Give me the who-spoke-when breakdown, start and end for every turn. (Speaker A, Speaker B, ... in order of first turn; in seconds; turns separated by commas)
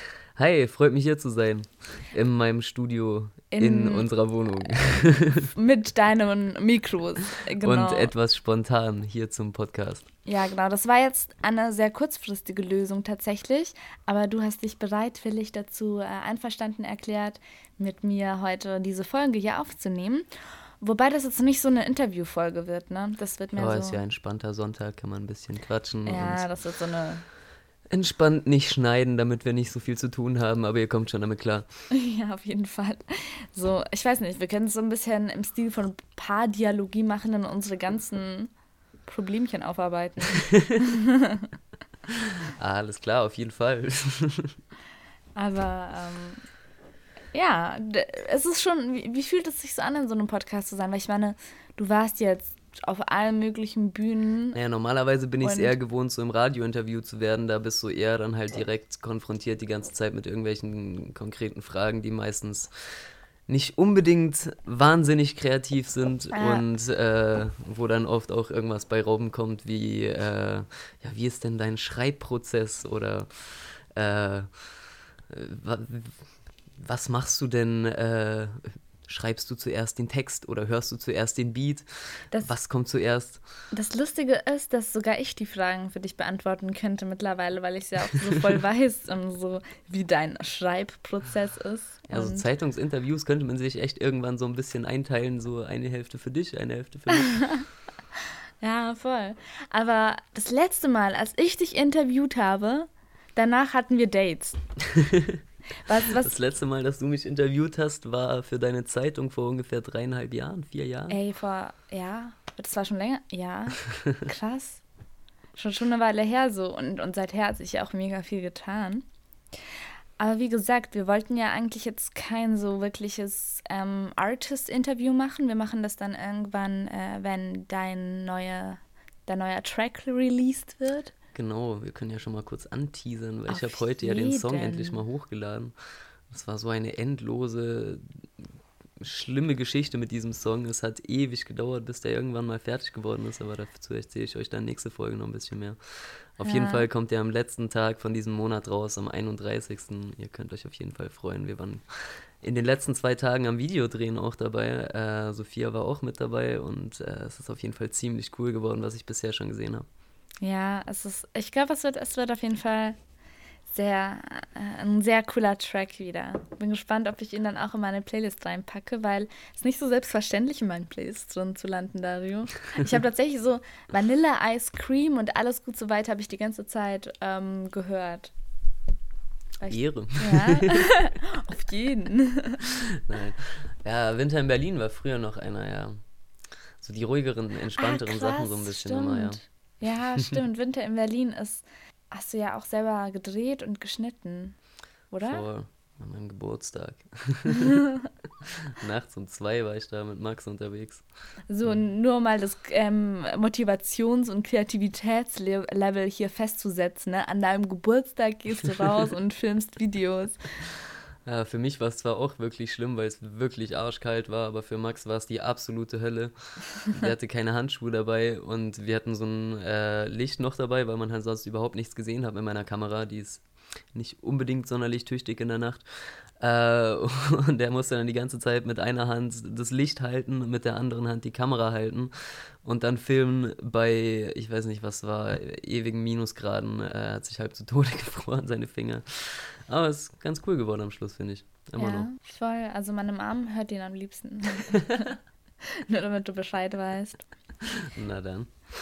Speaker A: 0.4-5.5, Speaker B: 3.5-4.1, Speaker B: 5.4-8.1, Speaker A: 7.6-10.1, Speaker B: 10.3-20.3, Speaker B: 20.8-24.0, Speaker A: 23.5-26.5, Speaker B: 26.1-27.2, Speaker A: 27.9-31.7, Speaker B: 31.9-38.5, Speaker B: 39.1-41.5, Speaker A: 40.4-40.8, Speaker A: 42.1-44.6, Speaker B: 45.4-46.4, Speaker B: 47.3-54.6, Speaker A: 54.5-62.7, Speaker B: 55.4-55.7, Speaker A: 63.5-74.5, Speaker B: 66.3-66.6, Speaker A: 75.3-76.2, Speaker A: 76.8-83.4, Speaker B: 83.7-92.5, Speaker A: 92.1-97.5, Speaker B: 97.1-97.7, Speaker B: 98.6-104.6, Speaker A: 104.9-105.4, Speaker B: 105.8-106.3, Speaker A: 106.1-111.2, Speaker B: 111.1-114.8, Speaker B: 115.6-119.0, Speaker B: 120.2-131.1, Speaker A: 131.3-135.7, Speaker B: 133.5-135.0, Speaker A: 136.3-138.5, Speaker A: 139.0-145.8, Speaker A: 146.4-159.9, Speaker B: 146.4-146.9, Speaker B: 160.4-163.0, Speaker B: 163.7-178.3, Speaker B: 179.6-182.7, Speaker A: 179.7-180.9, Speaker A: 182.9-186.0, Speaker A: 186.8-189.4, Speaker B: 187.8-194.6, Speaker B: 195.1-195.4, Speaker A: 195.2-197.8, Speaker B: 197.5-198.0, Speaker A: 198.4-201.1, Speaker B: 201.5-210.4, Speaker A: 211.2-216.3, Speaker A: 216.9-242.1, Speaker B: 241.8-247.2, Speaker A: 247.7-248.5